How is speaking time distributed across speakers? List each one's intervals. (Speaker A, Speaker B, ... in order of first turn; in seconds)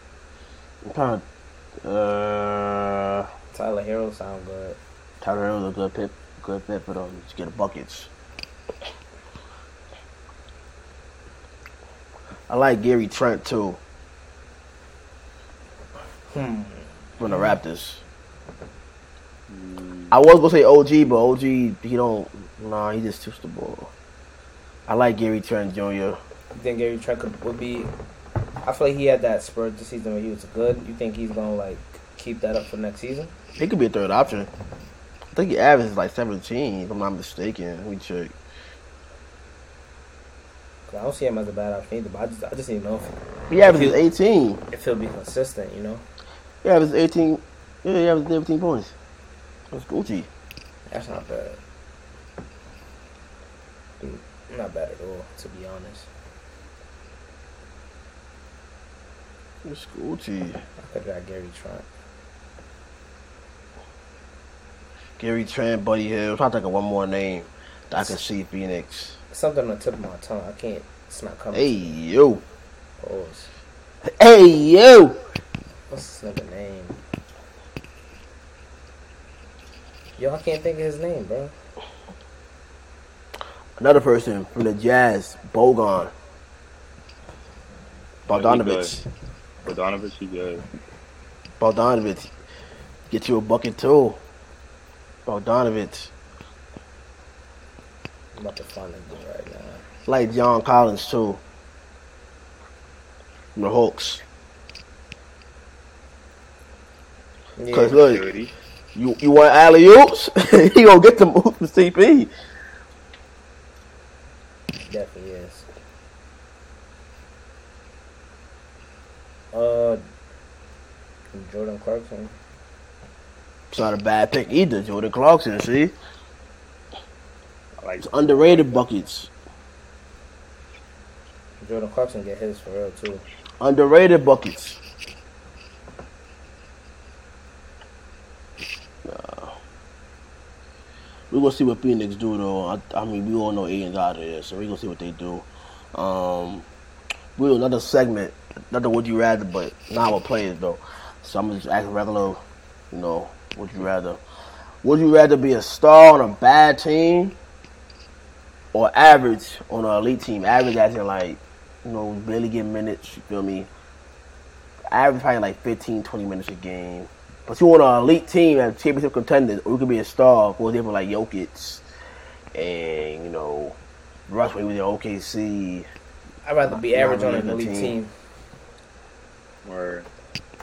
Speaker A: 0.8-1.2, 1.8-3.3, 5.2-8.1, 12.5-13.8, 17.2-18.0, 20.1-23.9, 24.9-26.2, 33.6-34.5, 35.3-38.3, 43.5-44.6, 46.6-48.9, 49.7-50.3, 59.6-60.6, 65.2-69.2, 71.5-72.4, 74.2-75.2, 83.8-86.1, 88.3-89.0, 91.6-92.3, 93.1-94.2, 95.3-96.1, 100.1-101.4, 103.6-104.2, 107.7-108.3, 109.0-112.3, 123.7-125.9, 128.0-129.3, 133.6-134.8, 139.0-139.6, 141.3-146.7, 147.4-154.2, 154.8-157.4, 158.7-163.7, 164.9-171.8, 172.5-173.8, 174.3-175.9, 176.7-178.0
Speaker B: 3.5-4.8, 16.3-17.6, 26.5-27.9, 28.6-33.3, 40.9-43.1, 43.6-44.0, 44.7-46.0, 50.9-51.6, 54.0-56.1, 60.8-61.9, 69.3-72.0, 73.0-73.5, 75.9-77.0, 80.2-81.5, 98.4-99.8, 107.6-108.0, 114.9-115.7, 119.5-120.0, 121.3-122.3, 131.6-133.2, 176.4-178.1
Speaker C: 19.5-20.1, 88.3-88.9, 89.7-90.6, 107.9-108.5, 127.8-128.8, 179.7-180.1